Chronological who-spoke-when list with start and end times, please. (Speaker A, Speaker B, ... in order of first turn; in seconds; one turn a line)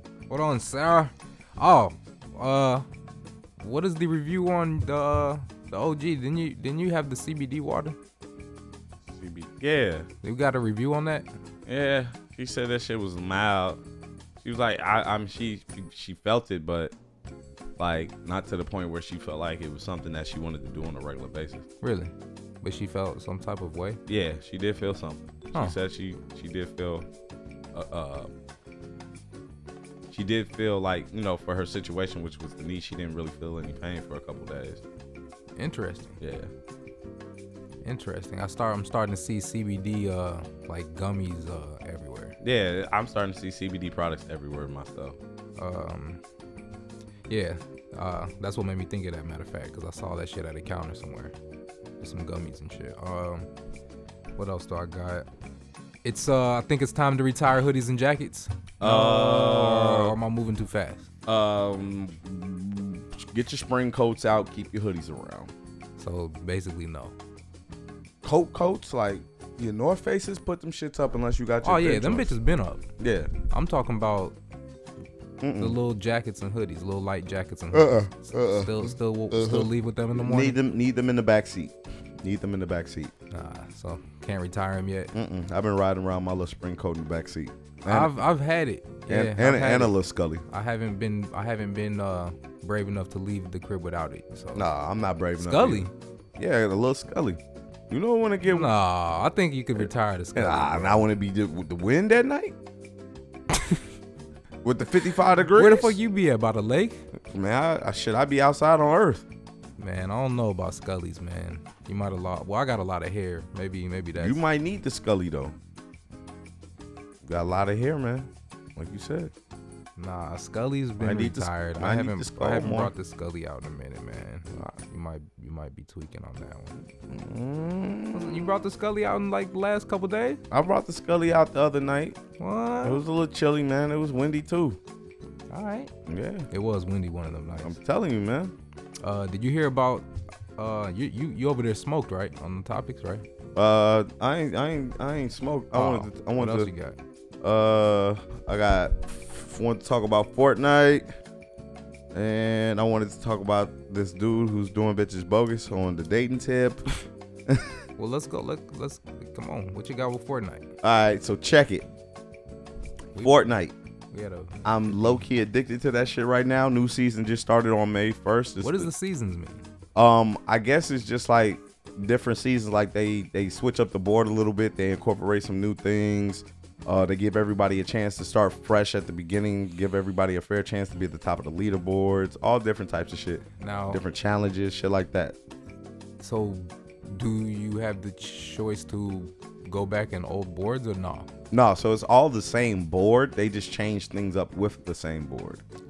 Speaker A: 0.3-2.9
Speaker A: 3.6-8.0
Speaker B: 9.1-10.1
Speaker A: 10.2-11.3
Speaker B: 11.7-13.8
Speaker B: 14.4-16.9
Speaker B: 17.8-21.7
Speaker A: 21.8-24.0
Speaker B: 24.1-27.1
Speaker B: 27.7-28.3
Speaker B: 30.1-34.8
Speaker A: 35.6-36.2
Speaker B: 36.2-36.5
Speaker A: 37.8-42.4
Speaker B: 42.4-45.2
Speaker A: 45.6-46.2
Speaker A: 47.3-51.4
Speaker A: 52.0-53.5
Speaker A: 54.4-55.3
Speaker A: 56.0-61.1
Speaker B: 58.8-60.2
Speaker B: 61.3-65.5
Speaker A: 66.0-67.1
Speaker B: 68.2-72.4
Speaker A: 71.6-72.9
Speaker B: 73.0-73.3
Speaker A: 73.5-74.4
Speaker B: 75.4-75.8
Speaker A: 75.6-80.6
Speaker B: 77.7-83.1
Speaker A: 83.3-85.1
Speaker B: 85.1-88.2
Speaker A: 87.9-90.0
Speaker B: 89.1-90.4
Speaker A: 90.5-94.7
Speaker B: 94.5-98.7
Speaker A: 95.4-95.9
Speaker A: 98.5-101.0
Speaker B: 99.8-102.5
Speaker A: 103.5-103.8
Speaker B: 104.6-106.0
Speaker A: 105.5-107.0
Speaker B: 107.2-109.2
Speaker A: 109.8-114.4
Speaker B: 114.2-115.6
Speaker B: 117.2-119.3
Speaker A: 120.0-126.8
Speaker B: 121.0-122.9
Speaker B: 126.8-128.6
Speaker A: 128.1-130.4
Speaker B: 130.5-132.2
Speaker A: 132.4-133.0
Speaker B: 132.8-134.8
Speaker A: 135.5-135.9
Speaker B: 136.1-136.5
Speaker A: 136.5-137.8
Speaker B: 137.6-138.6
Speaker A: 139.0-143.2
Speaker B: 143.6-146.7
Speaker A: 145.7-147.0
Speaker B: 147.4-151.1
Speaker B: 152.1-156.8
Speaker A: 158.0-160.7
Speaker B: 160.8-161.9
Speaker A: 163.1-163.5
Speaker B: 163.2-163.7
Speaker A: 164.1-165.3
Speaker B: 164.7-168.9
Speaker A: 168.6-169.7
Speaker B: 169.9-185.4
Speaker A: 183.6-184.0
Speaker A: 186.2-191.3
Speaker B: 191.5-195.6